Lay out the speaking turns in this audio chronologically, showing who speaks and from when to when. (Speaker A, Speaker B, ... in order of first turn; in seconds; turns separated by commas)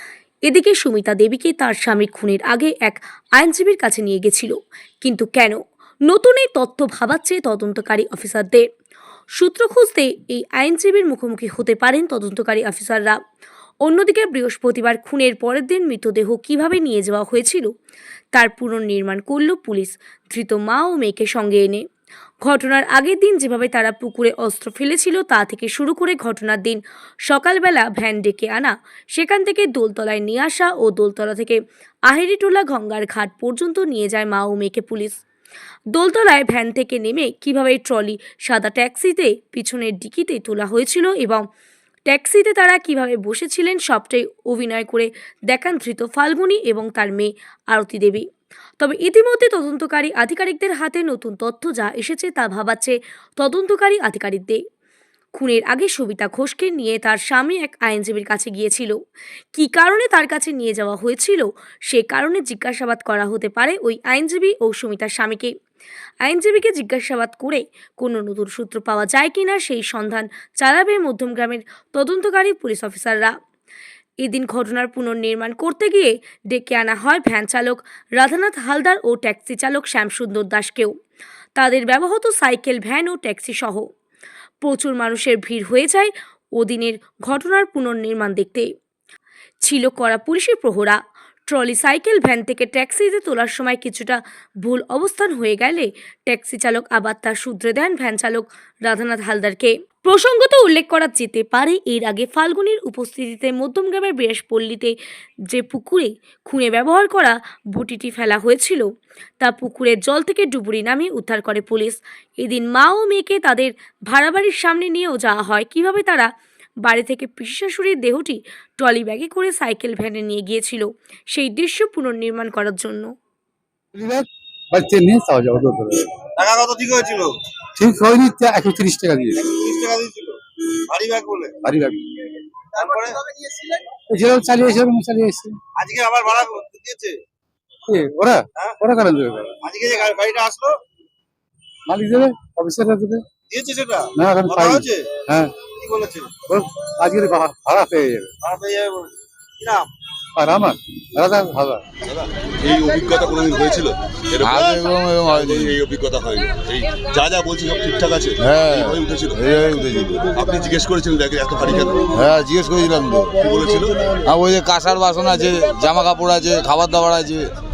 Speaker A: 0.5-8.6, Speaker A: 9.4-13.2, Speaker A: 13.8-17.7, Speaker A: 18.4-21.8, Speaker A: 22.4-35.2, Speaker A: 36.0-41.5, Speaker A: 42.1-48.3, Speaker A: 48.8-54.6, Speaker A: 55.4-58.9, Speaker A: 59.5-65.5, Speaker A: 66.2-73.3, Speaker A: 74.2-81.0, Speaker A: 81.6-83.9, Speaker A: 84.6-88.7, Speaker A: 89.6-105.0, Speaker A: 105.5-108.9, Speaker A: 109.4-116.3, Speaker A: 116.8-123.1, Speaker B: 124.0-126.1, Speaker C: 126.4-127.3, Speaker B: 127.8-129.4, Speaker C: 129.4-130.4, Speaker C: 130.9-131.6, Speaker B: 131.7-132.1, Speaker C: 132.8-133.2, Speaker B: 134.1-135.6, Speaker C: 135.8-137.2, Speaker B: 137.9-139.5, Speaker C: 139.6-140.8, Speaker B: 141.9-143.2, Speaker C: 143.5-146.4, Speaker B: 144.2-145.5, Speaker B: 146.4-148.3, Speaker C: 148.4-149.9, Speaker B: 150.4-151.8, Speaker D: 152.1-159.4, Speaker E: 154.4-155.8, Speaker E: 158.4-160.2, Speaker D: 160.2-162.1, Speaker E: 162.1-163.4, Speaker D: 163.4-164.2, Speaker E: 164.3-167.5